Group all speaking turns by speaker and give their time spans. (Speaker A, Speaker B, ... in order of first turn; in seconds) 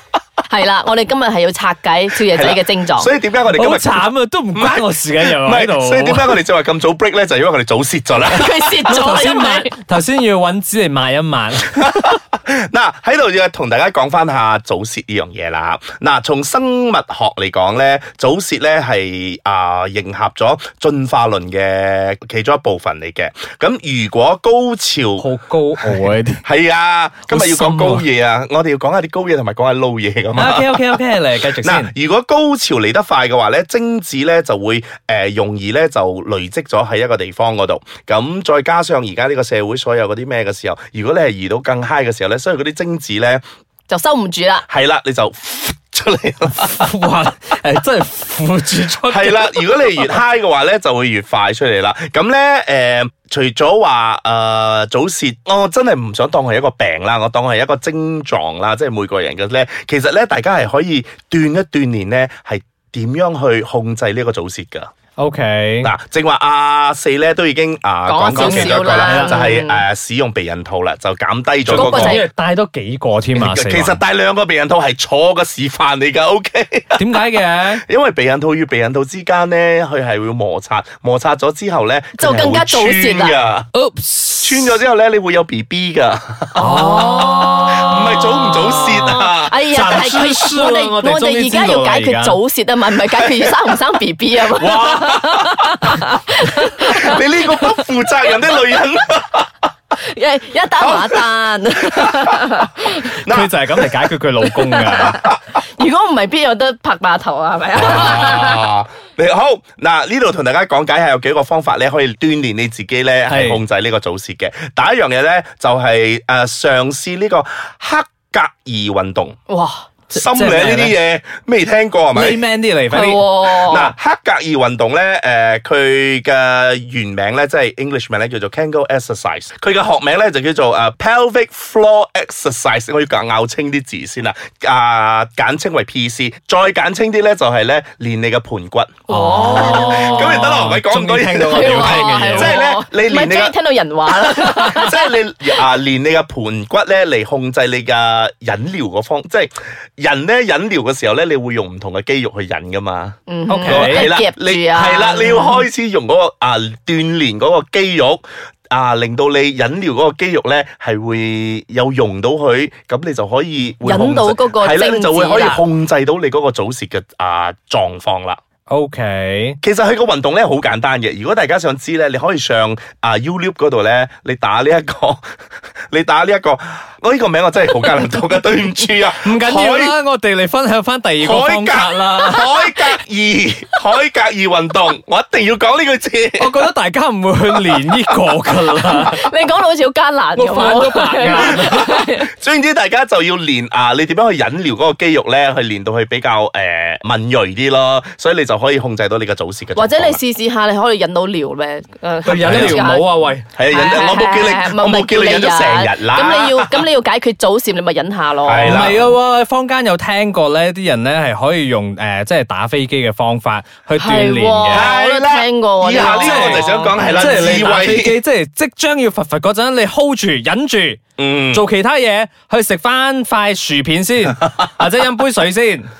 Speaker A: 0.5-3.1, 8.3-9.7, 43.9-44.6, 68.0-69.8, 71.7-72.3, 82.2-83.4, 86.5-87.6, 88.5-97.8, 100.0-103.1, 104.8-108.7, 119.5-119.9, 122.9-123.9, 139.1-140.4, 141.5-145.1, 153.3-155.6, 163.8-165.6, 188.8-192.3, 199.8-203.1, 203.7-209.0, 214.0-217.7
Speaker B: 2.2-8.9, 11.8-25.3, 25.9-31.0, 31.6-43.4, 44.7-46.9, 49.1-64.9, 65.8-72.2, 73.3-77.0, 77.8-83.7, 84.4-86.8, 87.6-89.6, 93.1-93.7, 94.4-95.8, 96.8-99.5, 100.8-101.2, 101.8-103.9, 104.9-105.3, 107.7-119.3, 120.1-122.4, 123.4-143.5, 144.1-168.4, 169.6-175.2, 175.9-179.9, 181.2-186.5, 191.4-200.2, 202.4-202.8, 203.5-206.8, 208.4-209.1, 214.7-218.2, 221.2-221.6
Speaker C: 3.5-6.4, 8.8-11.8, 25.2-26.4, 27.3-28.0, 30.3-31.9, 46.5-50.1, 65.2-65.9, 68.3-69.4, 71.7-74.0, 77.0-77.8, 83.7-84.7, 86.6-88.8, 89.7-92.4, 103.2-105.2, 113.3-113.6, 120.1-121.0, 122.1-123.2, 139.1-142.6, 153.5-154.1, 168.7-169.6, 179.2-182.5, 186.4-189.2, 190.4-192.0, 202.2-203.4, 208.6-214.9, 215.9-225.9